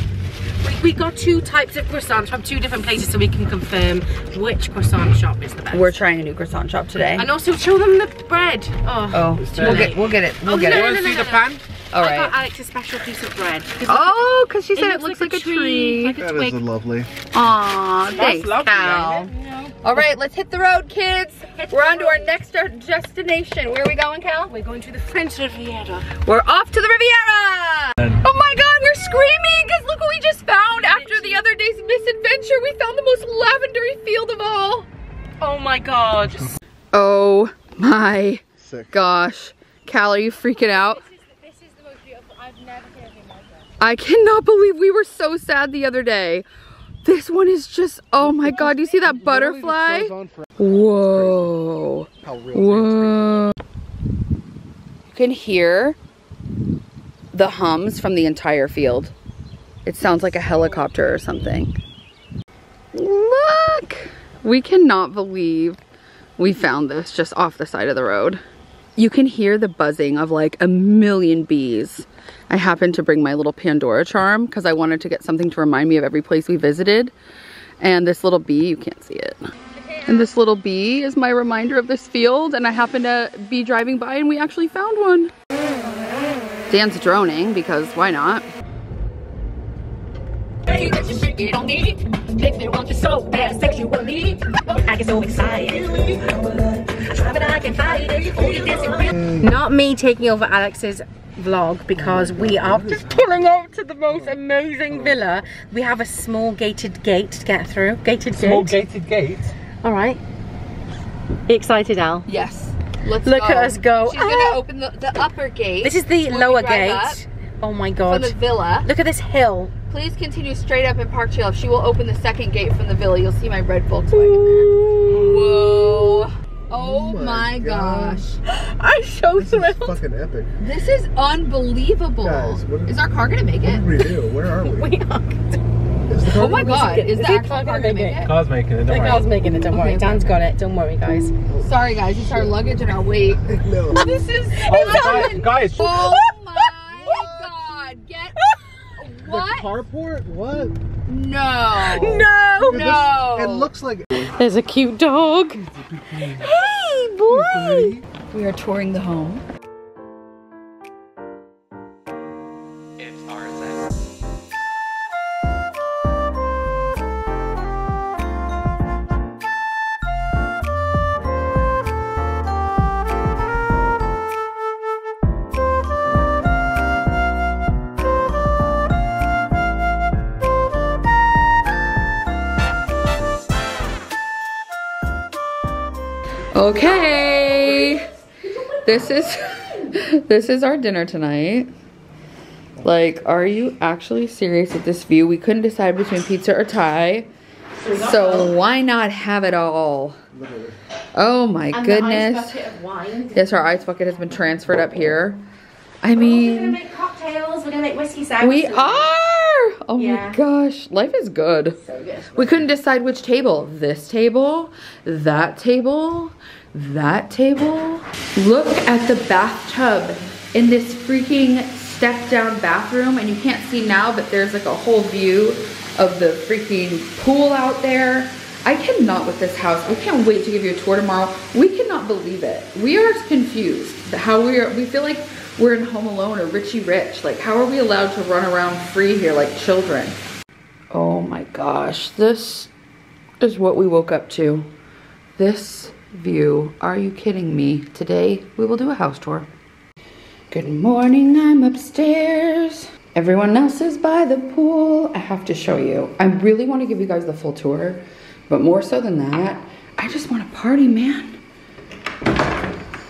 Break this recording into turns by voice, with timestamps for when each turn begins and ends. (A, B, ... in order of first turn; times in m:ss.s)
0:00.6-0:06.0 A
0:05.7-0:07.3 B
0:07.2-0:16.6 A
0:09.1-0:11.0 B
0:10.7-0:11.4 C
0:11.9-0:12.3 B
0:13.8-0:16.2 B
0:16.2-0:17.1 D
0:17.3-0:24.5 B
0:18.4-0:18.8 C
0:19.3-0:19.6 A
0:21.6-0:22.3 A
0:24.5-0:26.1 A
0:26.2-0:34.9 B
0:30.8-0:31.4 A
0:35.4-0:36.5 A
0:36.9-0:41.0 B
0:38.6-0:39.0 D
0:40.7-0:43.6 A
0:43.8-0:46.4 B
0:47.0-0:53.6 B
0:48.2-0:51.4 D
0:52.2-0:53.5 D
0:55.0-0:56.0 B
0:57.3-0:59.1 B
0:59.8-1:01.7 B
1:02.9-1:05.8 B
1:06.4-1:08.4 B
1:09.0-1:17.1 B
1:17.8-1:19.4 B
1:20.0-1:25.3 B
1:26.7-1:28.5 B
1:30.7-1:48.8 A
1:39.1-1:39.4 D
1:42.3-1:43.4 D
1:48.4-1:49.5 C
1:49.8-1:50.2 A
1:51.5-1:52.3 A
1:52.3-1:57.2 B
1:53.2-1:54.6 A
1:55.8-1:59.7 A
1:58.1-1:58.9 B
1:59.9-2:08.4 B
2:04.1-2:05.4 A
2:05.1-2:05.8 D
2:06.7-2:08.3 D
2:08.4-2:10.0 A
2:09.4-2:10.6 D
2:10.6-2:13.9 B
2:12.2-2:13.0 D
2:13.6-2:14.9 D
2:14.6-2:15.6 A
2:16.1-2:16.9 D
2:16.2-2:18.3 B
2:16.3-2:18.3 A
2:18.2-2:19.2 C
2:18.8-2:21.3 A
2:19.7-2:20.3 B
2:21.6-2:23.5 B
2:23.4-2:24.0 D
2:23.9-2:26.7 A
2:24.5-2:29.7 B
2:24.7-2:25.9 C
2:27.0-2:27.5 D
2:28.4-2:28.8 A
2:29.2-2:30.8 D
2:31.0-2:33.7 B
2:31.7-2:32.8 A
2:32.7-2:34.2 D
2:34.2-2:35.7 A
2:35.7-2:36.5 D
2:36.2-2:39.4 B
2:37.3-2:38.0 D
3:06.5-3:08.1 B
3:08.8-3:11.7 B
3:12.8-3:17.3 B
3:17.8-3:18.5 A
3:17.9-3:20.2 B
3:20.3-3:20.8 D
3:21.1-3:22.6 B
3:21.7-3:23.4 A
3:23.3-3:25.4 B
3:26.0-3:26.8 B
3:26.1-3:29.1 A
3:28.4-3:31.8 B
3:30.0-3:30.4 A
3:31.8-3:32.4 A
3:32.3-4:00.2 B
4:00.9-4:02.7 B
4:03.4-4:04.7 B
4:05.4-4:09.5 B
4:10.5-4:21.4 B